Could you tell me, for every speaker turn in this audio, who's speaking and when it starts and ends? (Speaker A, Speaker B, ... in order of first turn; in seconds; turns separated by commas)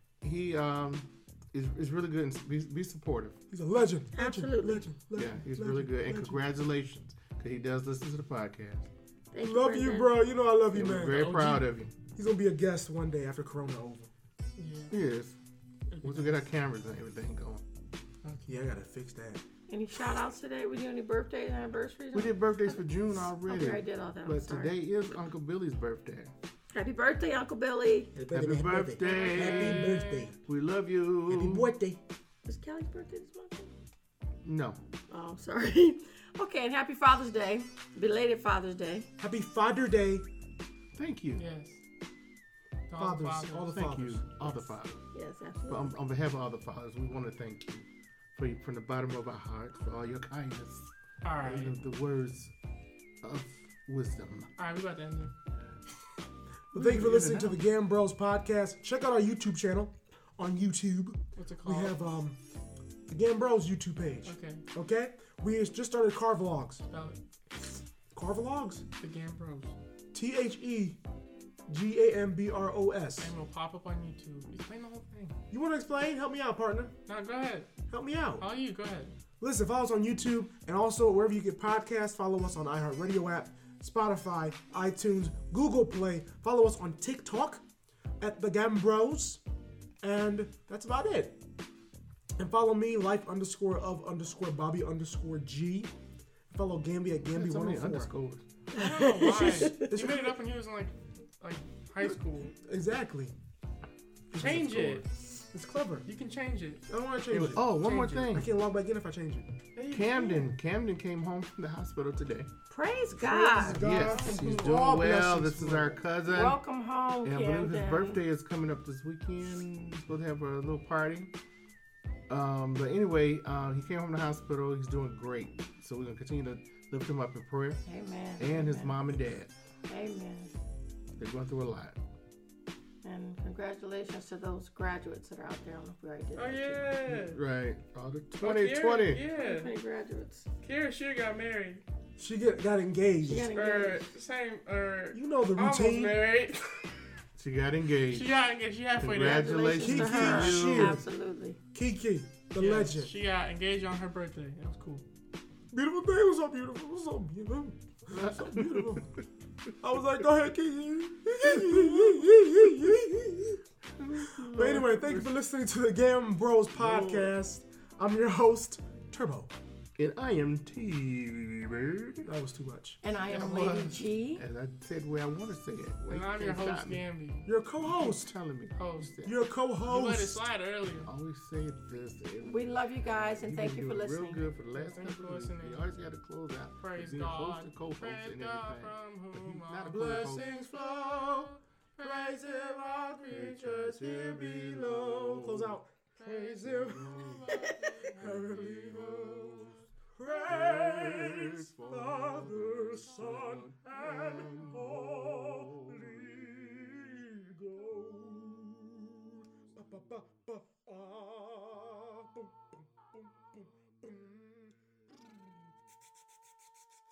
Speaker A: 0.2-3.4, Speaker B: 3.5-6.4, Speaker C: 4.1-4.9, Speaker A: 5.1-8.9, Speaker C: 9.3-10.2, Speaker B: 9.4-11.2, Speaker A: 10.7-11.9, Speaker D: 11.0-11.7, Speaker B: 12.1-14.1, Speaker D: 14.6-14.9, Speaker A: 14.9-15.4, Speaker D: 15.9-16.4, Speaker A: 16.0-17.6, Speaker D: 18.2-18.5, Speaker B: 18.4-19.4, Speaker C: 19.7-22.8, Speaker A: 22.1-26.3, Speaker C: 23.4-24.7, Speaker C: 26.7-28.1, Speaker B: 28.1-30.4, Speaker A: 28.3-31.7, Speaker D: 29.0-30.3, Speaker B: 31.3-32.0, Speaker C: 32.4-33.7, Speaker A: 34.4-34.8, Speaker C: 35.1-39.1, Speaker B: 39.2-40.2, Speaker A: 40.9-41.4, Speaker D: 41.4-41.8, Speaker D: 42.9-43.8, Speaker B: 43.0-44.7, Speaker A: 43.7-45.0, Speaker C: 45.1-46.0, Speaker A: 45.7-50.9, Speaker D: 51.2-51.7, Speaker A: 51.4-52.5, Speaker A: 53.2-54.5, Speaker D: 54.6-55.3, Speaker B: 56.7-62.4, Speaker A: 56.7-57.5, Speaker D: 61.4-62.0, Speaker B: 63.1-66.8, Speaker D: 64.2-64.6, Speaker D: 66.9-67.2, Speaker B: 68.1-68.8, Speaker D: 69.0-69.7, Speaker B: 70.1-71.0, Speaker B: 71.7-73.3, Speaker D: 73.2-75.3, Speaker B: 75.5-76.9, Speaker D: 77.1-77.7, Speaker B: 77.9-78.4, Speaker D: 78.4-79.1, Speaker B: 79.4-87.6, Speaker B: 88.2-89.4, Speaker B: 90.0-91.4, Speaker B: 92.4-95.9, Speaker B: 96.5-98.1, Speaker A: 97.3-98.4, Speaker C: 98.7-99.9, Speaker D: 98.7-102.5, Speaker B: 99.5-100.3, Speaker B: 102.6-103.3, Speaker B: 104.3-106.1, Speaker D: 104.4-105.0, Speaker D: 106.0-106.8, Speaker B: 106.9-107.8, Speaker A: 107.3-108.5, Speaker D: 107.6-108.4, Speaker B: 108.3-109.5, Speaker D: 109.7-110.5, Speaker A: 109.9-112.5, Speaker C: 112.7-113.8, Speaker B: 113.2-116.0, Speaker A: 113.7-116.6, Speaker D: 113.9-114.6, Speaker C: 116.2-118.2, Speaker A: 117.2-121.3, Speaker A: 122.3-127.8, Speaker C: 127.8-129.0, Speaker A: 128.4-129.5, Speaker C: 129.9-130.5, Speaker A: 131.2-132.0, Speaker C: 133.0-137.0, Speaker D: 136.3-137.4, Speaker A: 137.1-139.2, Speaker D: 138.4-139.7, Speaker C: 139.3-140.4, Speaker D: 140.6-141.8, Speaker B: 142.2-143.5, Speaker C: 143.2-144.1, Speaker D: 143.5-146.7, Speaker B: 145.1-146.2, Speaker A: 147.4-148.4, Speaker D: 148.1-149.7, Speaker A: 149.0-151.0, Speaker C: 149.2-151.6, Speaker B: 149.8-151.0, Speaker B: 151.7-153.1, Speaker D: 152.6-155.0, Speaker B: 155.7-159.1, Speaker A: 158.1-159.0, Speaker B: 159.8-163.6, Speaker A: 161.4-162.9, Speaker A: 164.0-165.3, Speaker B: 164.5-169.5, Speaker A: 166.8-167.3, Speaker A: 170.0-172.3, Speaker B: 172.2-173.0, Speaker C: 173.0-174.4, Speaker A: 173.2-177.0, Speaker D: 176.1-177.4, Speaker B: 177.4-178.3, Speaker A: 177.9-179.3, Speaker D: 178.7-179.2, Speaker B: 179.2-180.4, Speaker D: 179.8-181.1, Speaker A: 181.1-190.6, Speaker C: 182.4-184.5, Speaker D: 184.7-185.8, Speaker D: 186.8-191.4, Speaker B: 189.9-212.5, Speaker D: 192.0-193.6, Speaker A: 193.5-195.7, Speaker D: 196.2-198.9, Speaker A: 196.7-197.6, Speaker A: 198.3-206.2, Speaker B: 213.1-214.7